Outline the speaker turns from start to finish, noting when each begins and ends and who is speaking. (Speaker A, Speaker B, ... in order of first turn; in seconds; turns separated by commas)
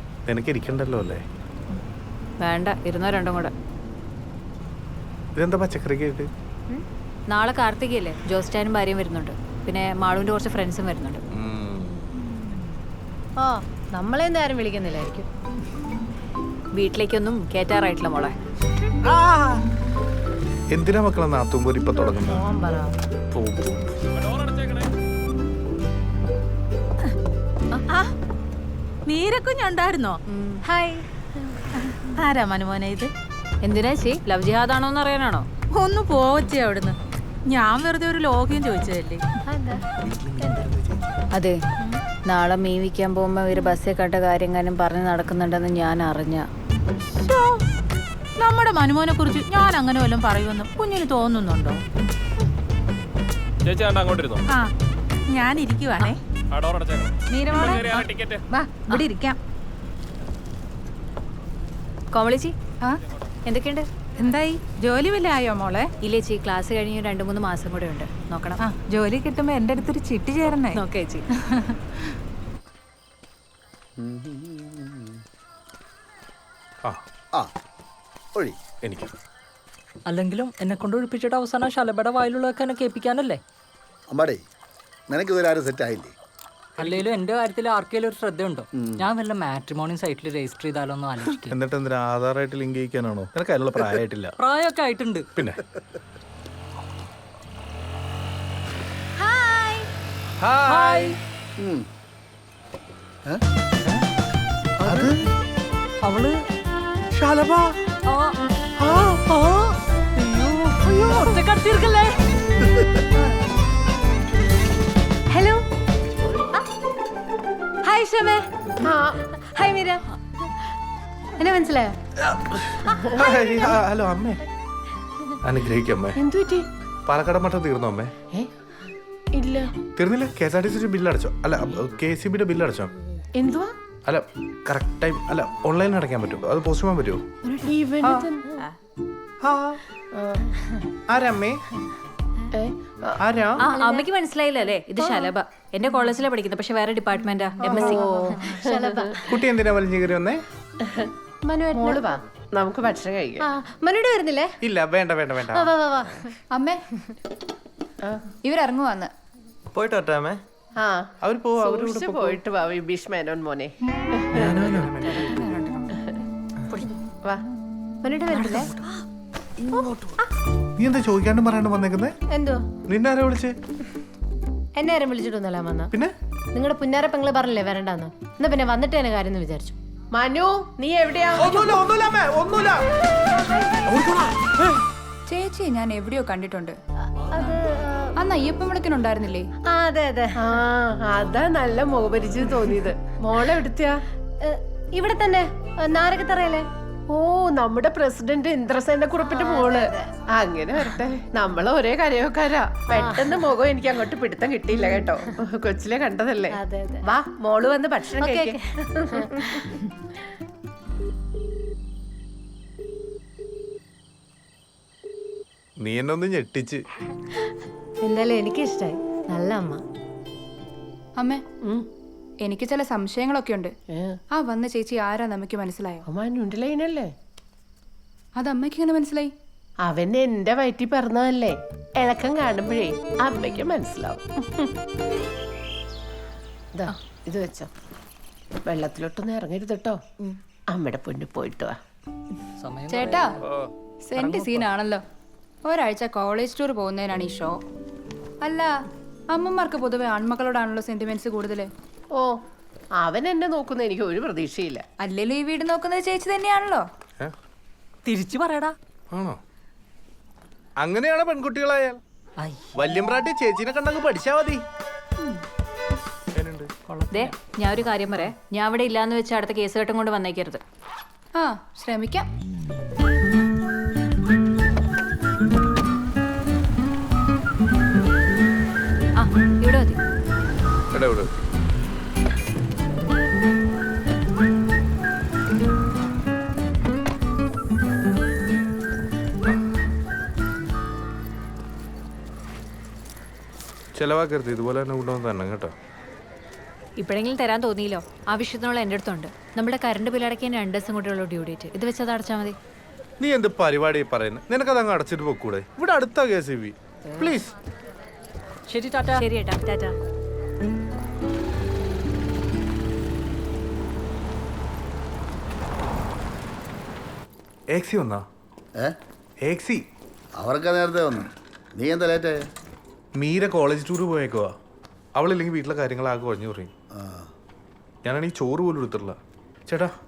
Speaker A: 0.3-1.2, Speaker B: 2.4-3.5, Speaker A: 5.4-6.3, Speaker B: 7.3-11.2, Speaker A: 11.3-12.1, Speaker C: 12.3-12.6, Speaker C: 13.4-15.2, Speaker B: 16.8-18.3, Speaker A: 19.0-19.6, Speaker A: 20.7-22.4, Speaker C: 22.2-22.9, Speaker A: 23.3-23.9, Speaker D: 27.9-28.1, Speaker D: 29.1-30.2, Speaker B: 30.6-31.0, Speaker D: 31.8-33.1, Speaker B: 33.6-35.5, Speaker D: 35.7-39.2, Speaker C: 39.5-39.8, Speaker A: 40.0-41.1, Speaker B: 41.3-41.6, Speaker B: 42.2-46.4, Speaker D: 47.0-47.6, Speaker D: 48.4-51.8, Speaker E: 53.6-54.4, Speaker D: 54.5-54.7, Speaker D: 55.3-56.2, Speaker E: 56.6-58.4, Speaker D: 57.2-59.4, Speaker B: 62.1-62.5, Speaker B: 63.5-63.9, Speaker D: 64.2-65.9, Speaker B: 66.0-68.6, Speaker D: 68.6-70.8, Speaker B: 70.7-71.2, Speaker F: 74.0-75.2, Speaker A: 78.8-79.1, Speaker G: 80.1-83.4, Speaker F: 84.1-84.4, Speaker F: 85.1-86.1, Speaker G: 86.8-91.5, Speaker F: 88.7-89.0, Speaker A: 91.4-94.3, Speaker G: 94.4-95.2, Speaker A: 95.4-95.6, Speaker A: 100.4-101.1, Speaker G: 100.7-101.1, Speaker F: 101.6-101.8, Speaker F: 104.8-105.1, Speaker A: 104.8-105.2, Speaker G: 106.0-106.4, Speaker A: 107.1-107.7, Speaker G: 108.1-108.3, Speaker A: 108.8-109.2, Speaker G: 109.3-112.2, Speaker C: 115.3-115.6, Speaker C: 116.3-116.6, Speaker C: 117.8-118.4, Speaker H: 118.8-119.1, Speaker C: 119.3-120.0, Speaker C: 121.4-122.0, Speaker A: 122.2-124.4, Speaker A: 125.4-126.2, Speaker H: 126.2-126.7, Speaker A: 127.1-128.1, Speaker H: 129.3-129.7, Speaker A: 130.0-132.9, Speaker H: 133.4-133.7, Speaker A: 134.1-137.2, Speaker I: 137.5-138.2, Speaker H: 137.6-138.4, Speaker A: 139.4-139.8, Speaker H: 140.1-140.5, Speaker A: 141.1-141.6, Speaker H: 142.5-143.2, Speaker A: 143.2-143.6, Speaker B: 143.6-148.0, Speaker C: 143.7-144.1, Speaker H: 147.6-149.2, Speaker C: 147.8-149.2, Speaker A: 149.3-150.4, Speaker H: 150.8-151.1, Speaker C: 151.5-152.2, Speaker H: 151.7-153.5, Speaker C: 153.4-154.6, Speaker A: 154.6-155.7, Speaker C: 155.5-156.4, Speaker I: 156.5-156.8, Speaker I: 158.4-159.1, Speaker H: 160.8-164.8, Speaker A: 161.2-162.4, Speaker A: 164.3-165.3, Speaker I: 164.6-165.9, Speaker C: 168.0-168.7, Speaker A: 170.8-172.1, Speaker C: 172.3-172.6, Speaker A: 172.9-173.5, Speaker C: 174.8-175.9, Speaker C: 176.5-179.8, Speaker H: 180.1-181.8, Speaker A: 181.4-182.8, Speaker A: 183.8-184.7, Speaker I: 185.3-186.8, Speaker C: 187.2-188.1, Speaker I: 188.2-189.5, Speaker C: 189.7-190.4, Speaker H: 190.4-194.0, Speaker C: 194.4-196.7, Speaker H: 197.1-208.6, Speaker C: 199.2-200.1, Speaker C: 202.9-203.5, Speaker C: 204.8-205.2, Speaker C: 206.5-207.1, Speaker C: 208.2-209.7, Speaker H: 209.1-209.6, Speaker A: 215.8-216.8, Speaker C: 218.0-219.8, Speaker I: 222.4-223.7, Speaker H: 223.9-224.2, Speaker I: 224.3-226.0, Speaker H: 226.1-227.1, Speaker I: 228.4-229.3, Speaker H: 229.8-234.7, Speaker H: 236.7-237.7, Speaker H: 238.7-240.0, Speaker H: 240.7-241.8, Speaker G: 242.6-243.3, Speaker I: 242.9-243.3, Speaker I: 244.0-245.0, Speaker G: 244.2-244.7, Speaker I: 245.6-247.6, Speaker I: 248.4-248.7, Speaker I: 249.3-251.7, Speaker H: 253.0-254.8, Speaker I: 255.0-256.8, Speaker G: 258.0-258.8, Speaker A: 259.1-259.4, Speaker A: 260.8-262.0, Speaker G: 262.4-262.8, Speaker A: 262.7-264.6, Speaker A: 266.3-266.7, Speaker G: 266.9-267.3, Speaker B: 267.1-270.6, Speaker I: 271.4-272.3, Speaker B: 279.2-280.0, Speaker A: 280.9-281.3, Speaker A: 293.9-295.7, Speaker B: 297.0-302.6, Speaker A: 303.2-307.5, Speaker G: 308.7-309.2, Speaker B: 309.1-309.9, Speaker A: 317.7-318.2, Speaker A: 319.4-319.8, Speaker F: 320.4-322.4, Speaker A: 323.1-324.5, Speaker A: 325.2-326.7, Speaker F: 326.9-327.3, Speaker A: 328.0-329.2